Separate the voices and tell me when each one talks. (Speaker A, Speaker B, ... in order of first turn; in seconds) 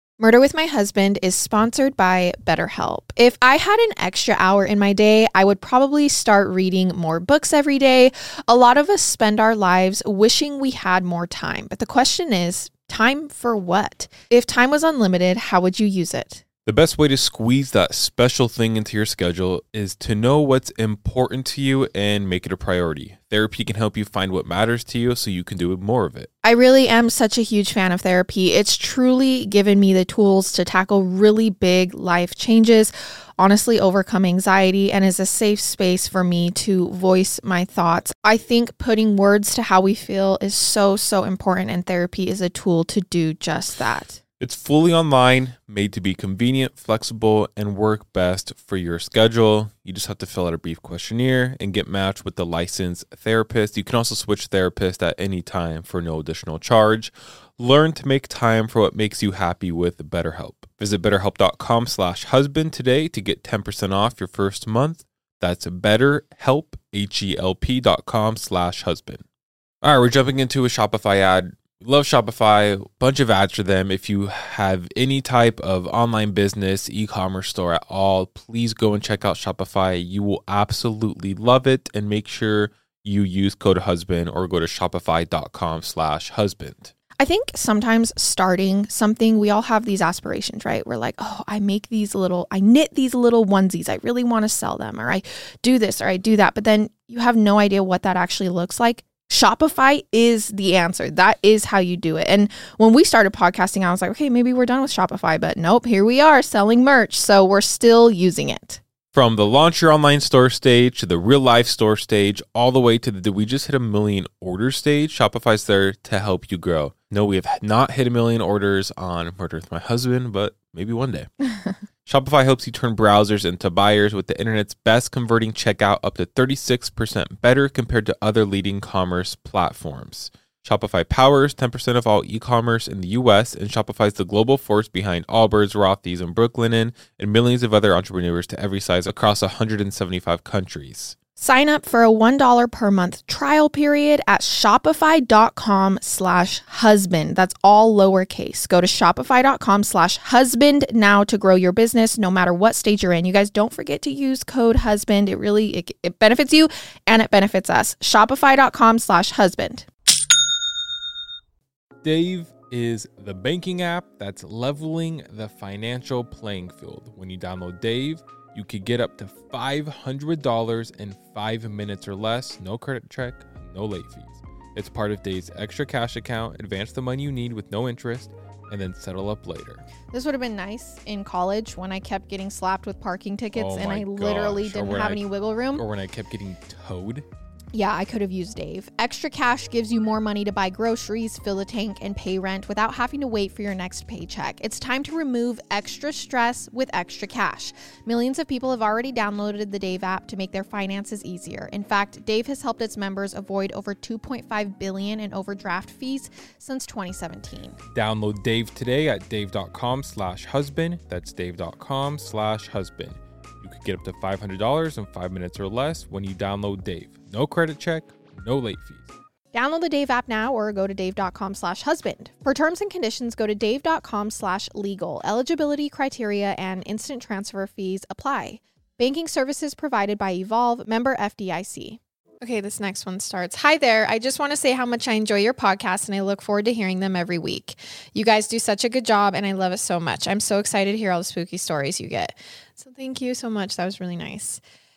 Speaker A: 0.2-16.4, 26.4-44.2, 87.2-108.8, 141.4-159.9, 180.1-185.8, 187.7-207.8, 219.5-244.6
Speaker B: 16.7-26.3, 44.4-69.2, 69.8-86.9, 109.1-121.3, 122.1-141.2, 162.0-179.8, 183.5-187.3, 207.9-219.1